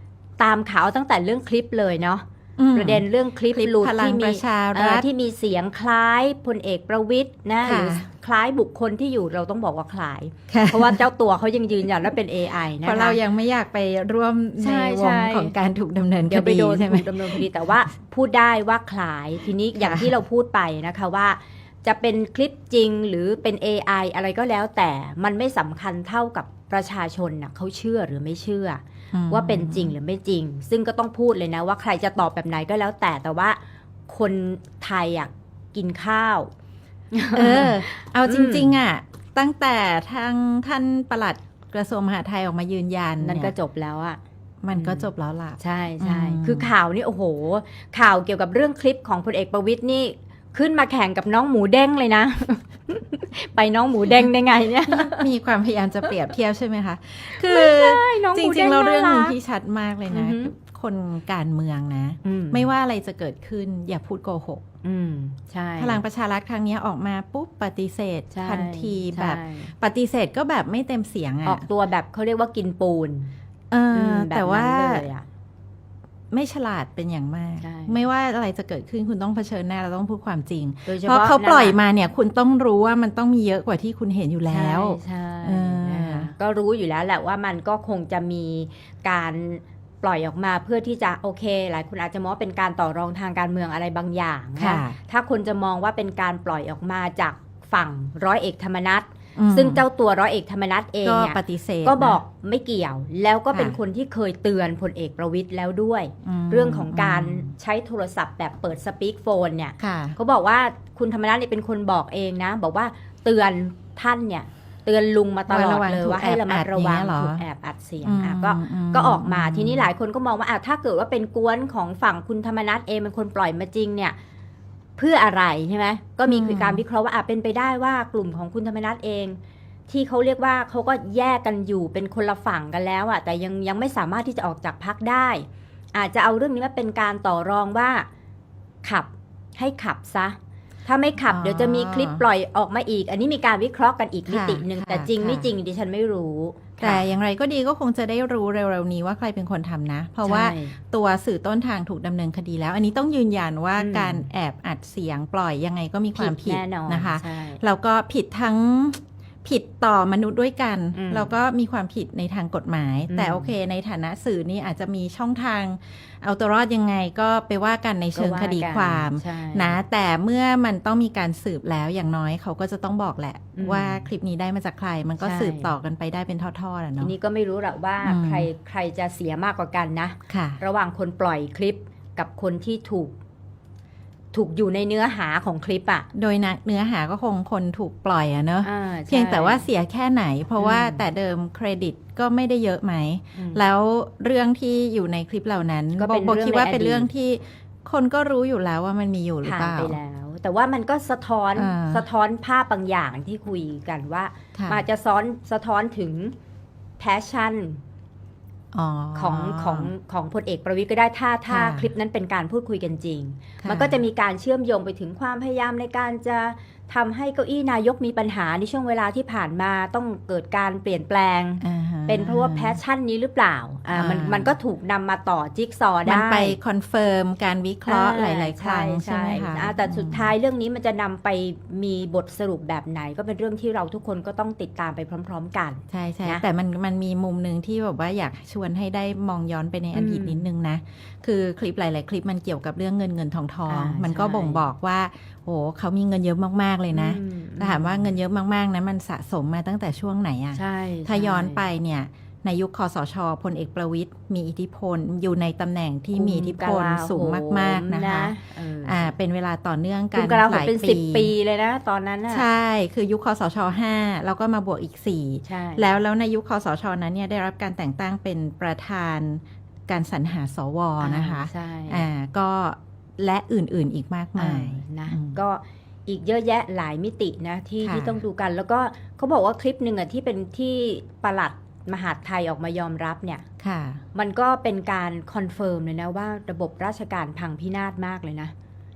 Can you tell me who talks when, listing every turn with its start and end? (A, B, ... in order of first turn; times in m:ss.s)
0:00.4-0:13.2 A
0:02.6-0:05.0 B
0:07.6-0:08.0 B
0:10.5-0:11.0 B
0:12.8-0:17.5 B
0:14.6-0:15.5 A
0:16.3-0:36.5 A
0:19.8-0:20.1 B
0:29.1-0:30.0 B
0:37.1-0:38.8 A
0:37.3-0:43.5 B
0:43.2-0:44.2 A
0:44.6-0:46.7 B
0:44.7-0:55.3 A
0:54.8-1:04.6 B
0:57.3-0:59.4 A
1:00.1-1:00.5 A
1:02.2-1:02.6 A
1:04.8-1:06.0 A
1:05.8-1:11.7 B
1:08.3-1:09.7 A
1:11.4-1:13.3 A
1:13.7-1:15.0 B
1:13.9-1:15.2 A
1:16.3-1:26.3 B
1:17.6-1:18.0 A
1:20.8-1:21.8 A
1:24.5-2:04.2 A
1:34.6-1:35.0 B
1:39.4-1:39.8 B
1:41.0-1:42.2 B
1:43.5-1:43.8 B
1:46.2-1:47.5 B
1:49.8-1:50.2 B
1:55.5-1:57.4 B
1:58.0-1:59.9 B
2:05.0-2:09.4 A
2:06.3-2:06.8 B
2:09.9-2:18.1 A
2:18.8-2:27.1 A
2:21.2-2:22.2 B
2:24.3-2:25.5 B
2:26.8-2:57.1 B
2:30.2-2:30.8 A
2:33.8-2:34.3 A
2:36.1-2:37.6 A
2:40.9-2:41.3 A
2:43.1-2:43.5 A
2:48.1-2:49.8 A
2:53.5-2:54.1 A
2:55.2-2:55.7 A
2:57.0-3:03.2 A
2:58.0-2:58.5 B
3:00.3-3:00.6 B
3:04.3-3:06.1 A
3:06.1-3:20.0 B
3:08.6-3:09.6 A
3:10.6-3:11.0 A
3:13.4-3:13.6 A
3:16.0-3:17.1 A
3:19.4-3:26.3 A
3:21.6-3:22.0 B
3:24.5-3:24.8 B
3:27.0-3:27.8 A
3:28.7-3:29.9 B
3:29.2-3:46.6 A
3:31.5-3:31.9 B
3:33.6-3:34.0 B
3:41.6-3:42.8 B
3:43.9-3:44.5 B
3:46.0-3:50.3 B
3:47.8-3:56.4 A
3:55.9-4:21.3 B
3:59.9-4:00.4 A
4:03.7-4:04.6 A
4:06.9-4:08.1 A
4:10.5-4:11.6 A
4:16.1-4:19.1 A
4:20.1-4:22.4 A
4:22.3-4:35.4 B
4:25.4-4:25.9 A
4:31.0-4:32.1 A
4:34.4-4:43.4 A
4:37.8-4:38.2 B
4:43.6-4:44.0 B
4:44.1-4:48.5 A